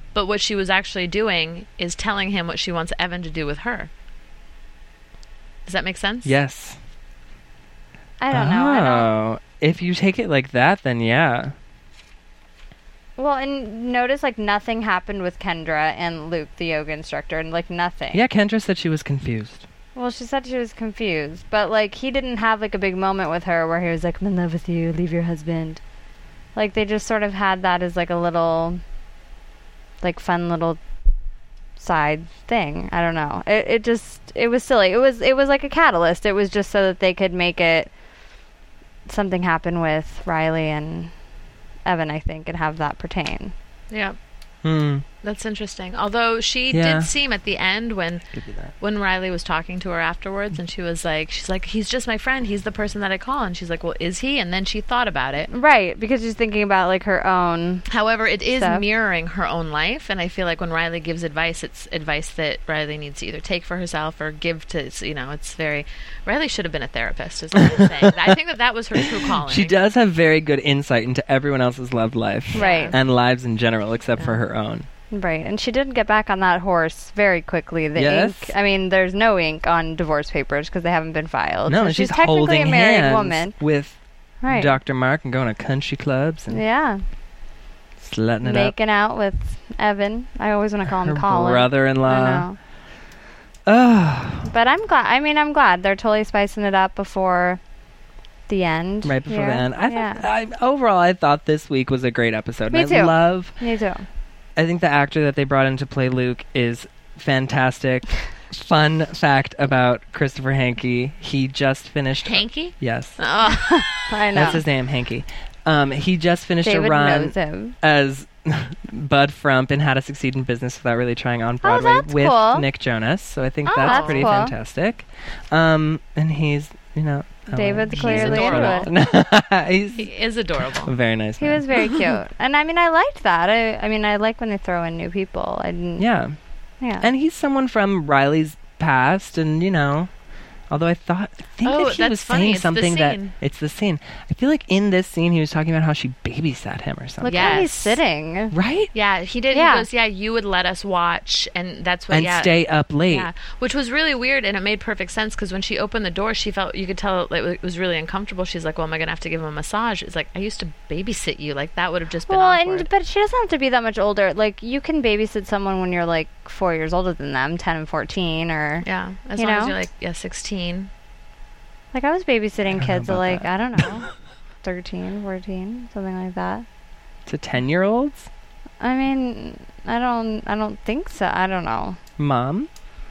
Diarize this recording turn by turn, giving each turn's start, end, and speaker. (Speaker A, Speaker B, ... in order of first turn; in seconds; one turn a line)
Speaker A: 0.1-3.9
Speaker A: 5.7-6.3
Speaker B: 6.2-6.8
Speaker C: 8.2-9.1
Speaker B: 8.3-11.5
Speaker C: 13.2-18.2
Speaker B: 18.1-19.7
Speaker C: 19.9-25.8
Speaker C: 26.6-28.8
Speaker C: 30.0-30.8
Speaker C: 31.8-37.9
Speaker C: 39.1-41.1
Speaker C: 41.9-43.5
Speaker A: 43.9-44.2
Speaker B: 44.6-45.0
Speaker A: 45.2-55.5
Speaker B: 46.7-47.1
Speaker B: 48.3-48.7
Speaker C: 55.5-57.9
Speaker A: 57.9-69.8
Speaker C: 58.5-58.8
Speaker B: 67.5-68.3
Speaker B: 69.0-74.9
Speaker A: 72.5-73.0
Speaker C: 72.5-72.9
Speaker C: 75.1-83.6
Speaker B: 78.0-78.5
Speaker B: 81.7-84.0
Speaker C: 84.4-84.8
Speaker B: 84.5-86.6
Speaker C: 86.5-87.0
Speaker B: 88.0-88.8
Speaker C: 88.4-92.6
Speaker B: 90.9-92.5
Speaker B: 93.7-94.5
Speaker C: 94.5-97.6
Speaker C: 98.5-100.2
Speaker B: 99.0-103.6
Speaker C: 102.7-104.1
Speaker B: 104.6-113.2
Speaker A: 112.2-114.5
Speaker C: 113.5-114.6
Speaker B: 114.3-130.1
Speaker C: 116.6-117.8
Speaker C: 121.6-122.7
Speaker C: 123.7-124.5
Speaker A: 123.8-124.3
Speaker C: 127.5-128.9
Speaker A: 127.9-128.9
Speaker A: 130.0-130.9
Speaker B: 130.8-131.7
Speaker C: 131.4-136.1
Speaker B: 136.0-136.4
Speaker C: 136.8-137.1
Speaker B: 137.0-140.1
Speaker B: 140.7-147.7
Speaker A: 141.6-143.3
Speaker C: 147.2-148.6
Speaker A: 147.2-148.0
Speaker B: 148.5-148.9
Speaker A: 148.9-152.6
Speaker C: 149.5-149.9
Speaker B: 152.1-153.3
Speaker A: 153.1-162.9
Speaker C: 162.3-169.8
Speaker A: 168.8-170.9
Speaker C: 171.9-174.1
Speaker B: 172.7-173.8
Speaker C: 174.6-176.7
Speaker B: 177.3-178.3
Speaker C: 178.8-182.0
Speaker B: 182.2-182.7